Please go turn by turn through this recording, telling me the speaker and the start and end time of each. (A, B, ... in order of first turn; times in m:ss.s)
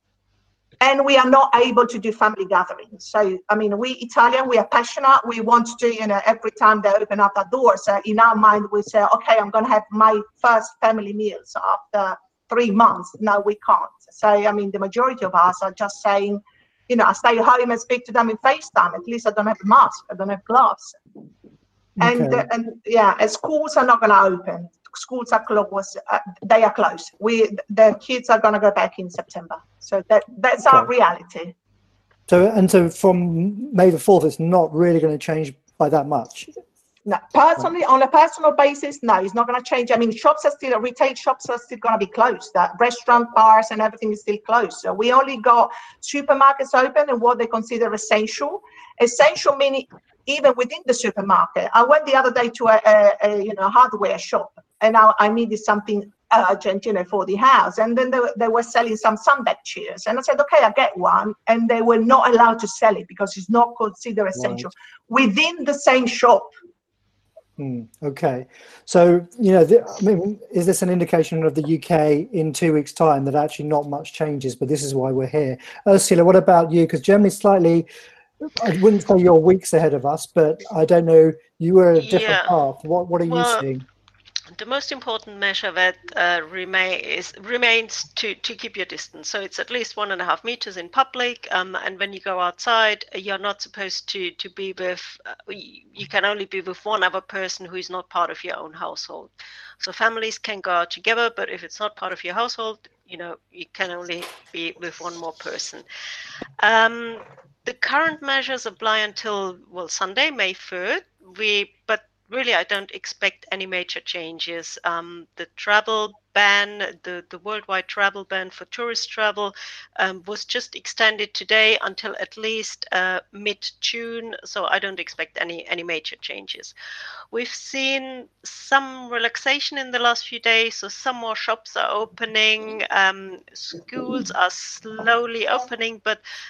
0:00.8-0:21.0 A
0:22.0-0:22.5 B
0:22.0-0:31.5 A
0:30.6-0:30.9 B
0:32.3-0:36.5 B
0:37.1-1:06.5 A
1:04.4-1:04.7 B
1:07.6-1:17.9 B
1:18.6-1:23.8 B
1:22.0-1:22.5 C
1:23.3-1:23.7 C
1:24.5-1:45.8 C
1:46.6-2:06.7 C
2:07.3-2:16.2 C